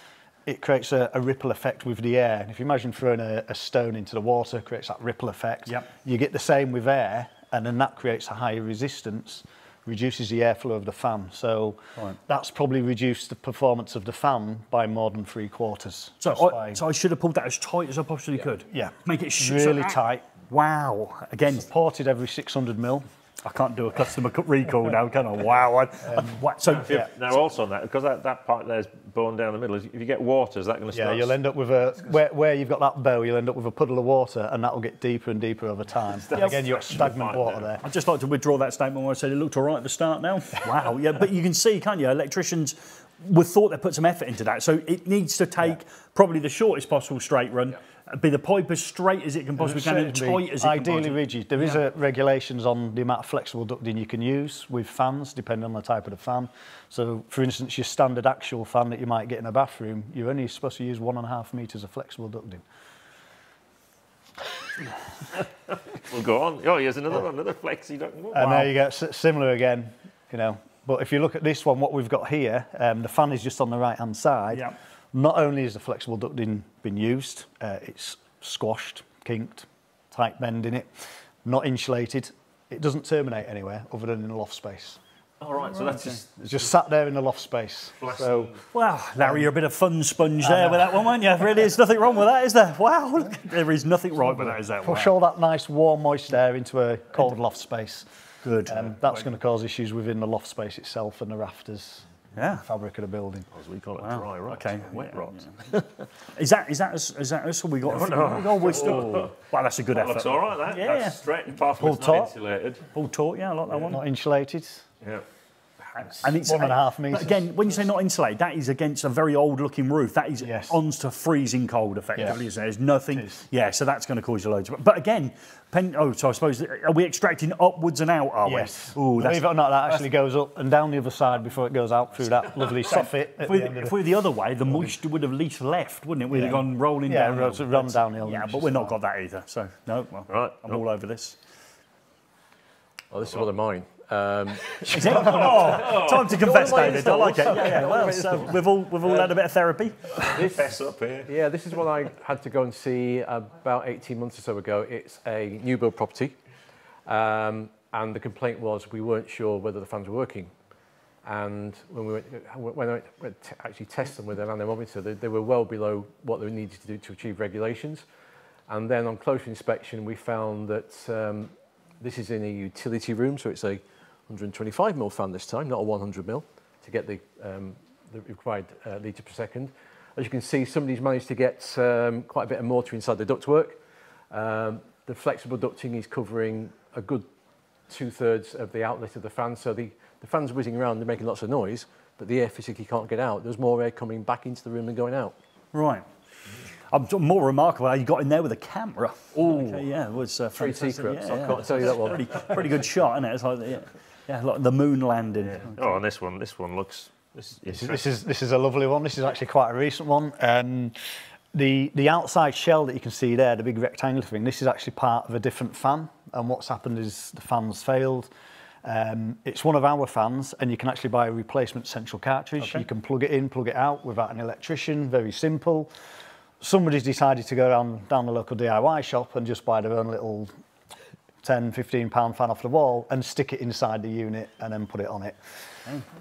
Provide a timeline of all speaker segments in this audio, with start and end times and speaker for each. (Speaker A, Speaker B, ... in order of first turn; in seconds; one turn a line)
Speaker A: 0.5-16.8
Speaker B: 16.2-21.7
Speaker A: 18.7-20.2
Speaker A: 21.5-23.1
Speaker B: 23.4-27.0
Speaker A: 26.1-26.4
Speaker C: 26.7-31.4
Speaker A: 30.9-37.8
Speaker C: 36.2-37.7
Speaker B: 37.8-51.8
Speaker A: 49.6-62.6
Speaker C: 66.0-68.7
Speaker A: 68.3-80.9
Speaker A: 81.4-85.0
Speaker C: 85.4-86.5
Speaker A: 86.1-88.5
Speaker C: 88.0-88.6
Speaker B: 88.7-95.1
Speaker A: 89.2-89.5
Speaker A: 90.4-91.1
Speaker A: 94.2-98.1
Speaker B: 98.4-99.0
Speaker A: 98.7-103.5
Speaker B: 102.4-102.7
Speaker C: 103.5-106.0
Speaker B: 104.0-105.5
Speaker B: 106.4-111.2
Speaker C: 107.9-109.4
Speaker C: 109.9-112.9
Speaker A: 111.8-112.3
Speaker B: 112.9-114.0
Speaker A: 113.9-114.8
Speaker A: 116.0-117.5
Speaker B: 116.0-129.5
Speaker A: 120.4-120.8
Speaker A: 123.1-123.5
Speaker A: 128.4-134.0
Speaker B: 132.9-141.4
Speaker A: 136.3-139.0
Speaker C: 140.3-140.8
Speaker D: 143.1-149.3
Speaker C: 144.8-147.5
Speaker B: 144.9-150.2
Speaker C: 150.2-151.3
Speaker D: 150.2-156.4
Speaker D: 157.1-160.5
Speaker D: 161.2-168.1
Speaker D: 168.7-187.3
Speaker D: 187.9-195.4
Speaker B: 195.7-196.1
Speaker B: 196.9-205.9
Speaker D: 199.3-199.9
Speaker D: 200.5-202.8
Speaker C: 205.5-208.0
Speaker A: 207.7-211.0
Speaker A: 211.5-218.3
Speaker A: 218.8-225.9
Speaker B: 222.6-222.9
Speaker A: 226.6-230.5
Speaker A: 231.4-235.4